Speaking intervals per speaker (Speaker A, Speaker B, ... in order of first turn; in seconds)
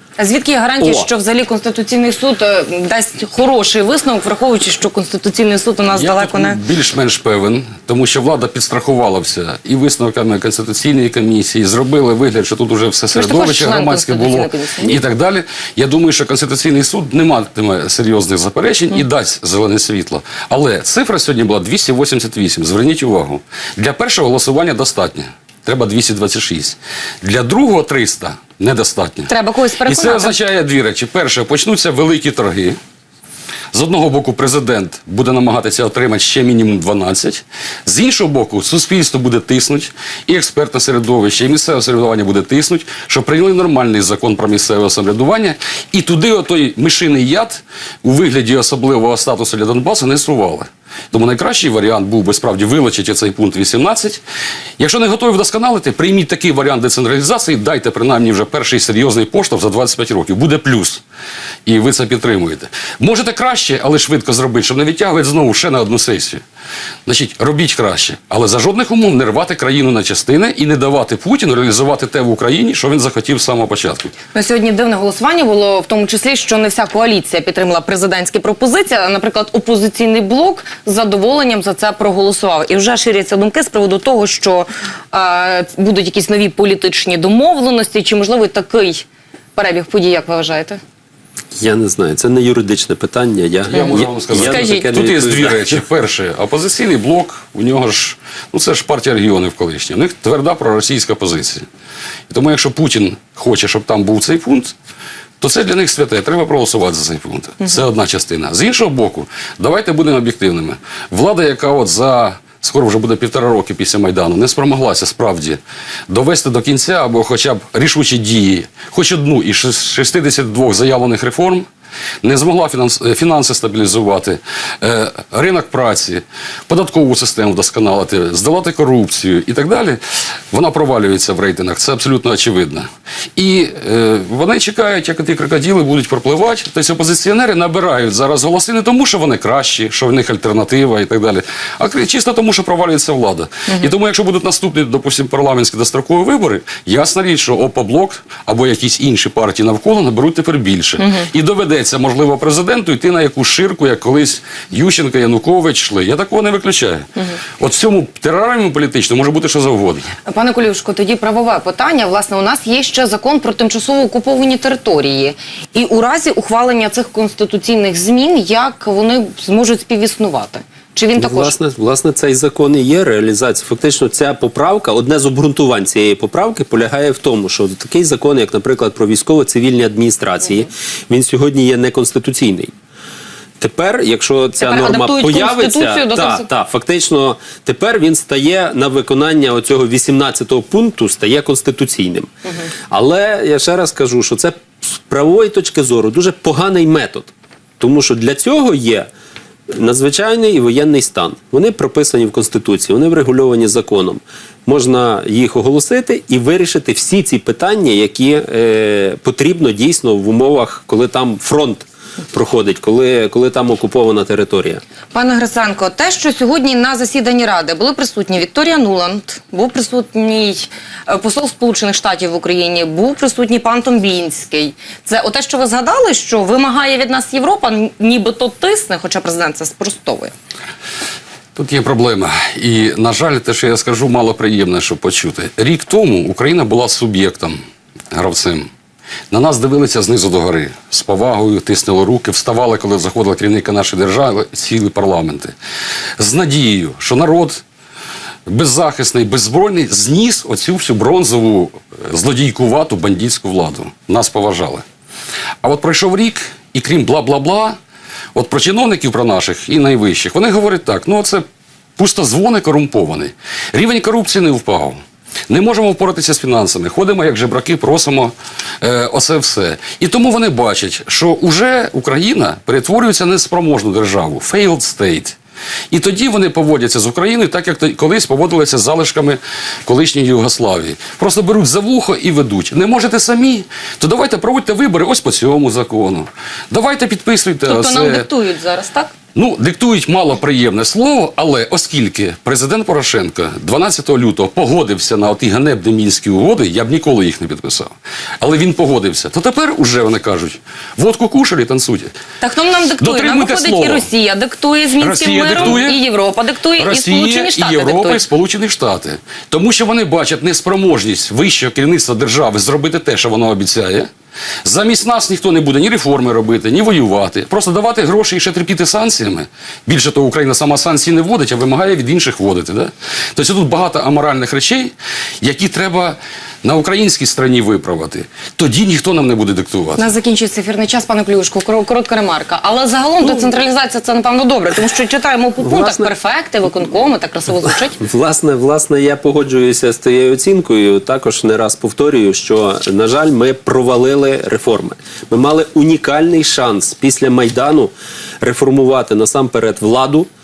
Speaker A: 0.2-6.6, 13.1-15.0, 29.3-30.4, 74.3-90.8, 94.3-94.9, 160.3-171.5, 184.6-186.5, 215.1-230.3, 287.6-289.1, 302.4-308.2, 330.0-338.0
Speaker B: 0.8-1.1, 91.6-95.7, 171.2-182.7, 183.6-192.3, 192.9-199.1, 199.7-214.8, 335.6-336.1, 338.0-350.3
Speaker C: 5.9-29.3, 29.8-32.8, 33.7-54.2, 54.8-61.0, 61.6-66.4, 67.0-74.1, 93.7-101.6, 102.3-104.7, 105.4-121.7, 122.2-130.0, 130.5-157.0, 157.6-160.1, 231.6-237.6, 238.1-238.7, 239.3-245.5, 246.2-247.6, 248.5-254.8, 255.6-257.8, 258.3-261.4, 262.0-275.4, 275.9-288.2, 289.3-302.1, 303.0-304.1, 305.0-306.0, 306.8-314.1, 314.6-330.1